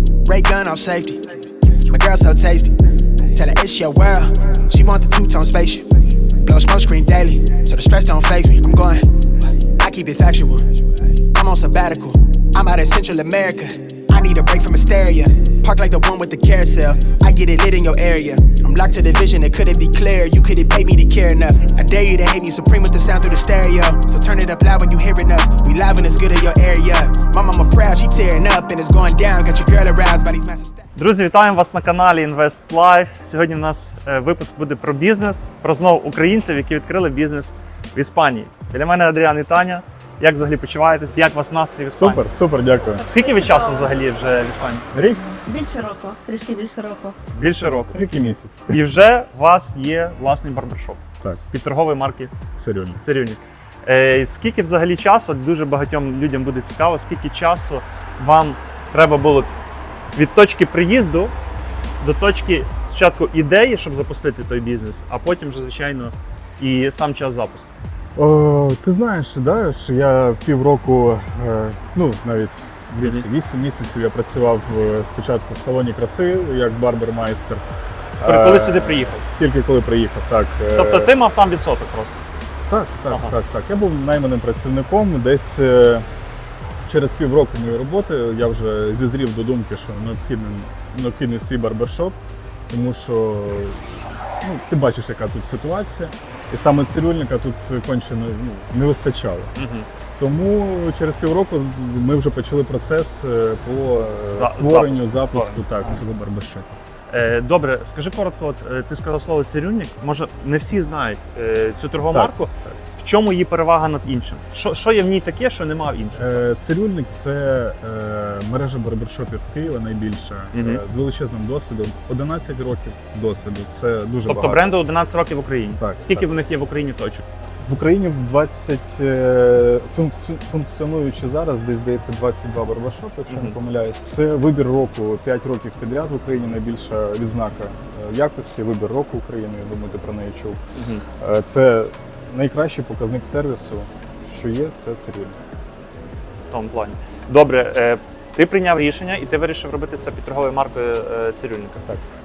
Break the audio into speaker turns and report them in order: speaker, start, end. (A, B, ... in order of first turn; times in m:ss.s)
0:00.2-0:02.7 A
0:03.3-0:05.9 A
0:06.4-0:30.8 A
0:31.0-0:42.2 B
0:42.0-0:43.0 C
0:43.0-0:44.9 B
0:43.1-0:43.8 D
0:44.9-0:45.2 C
0:45.4-0:47.2 D
0:47.3-0:48.0 B
0:47.4-0:48.8 C
0:48.7-0:52.5 B
0:52.6-0:53.0 C
0:53.0-0:59.5 B
1:00.1-1:01.3 B
1:02.0-1:07.7 B
1:08.2-1:17.6 C
1:18.2-1:21.1 C
1:18.2-1:19.2 B
1:20.7-1:22.2 B
1:22.7-1:26.1 C
1:26.8-1:32.2 C
1:32.7-1:39.5 C
1:39.6-1:39.9 B
1:40.2-1:46.7 C
1:44.1-1:46.0 B
1:47.1-1:56.4 B
1:56.2-2:04.7 C
2:00.5-2:00.8 B
2:04.2-2:07.2 B
2:05.8-2:06.3 C
2:07.6-2:20.6 C
2:13.3-2:13.6 B
2:20.8-2:21.0 B
2:21.2-2:25.4 C
2:26.5-2:31.8 B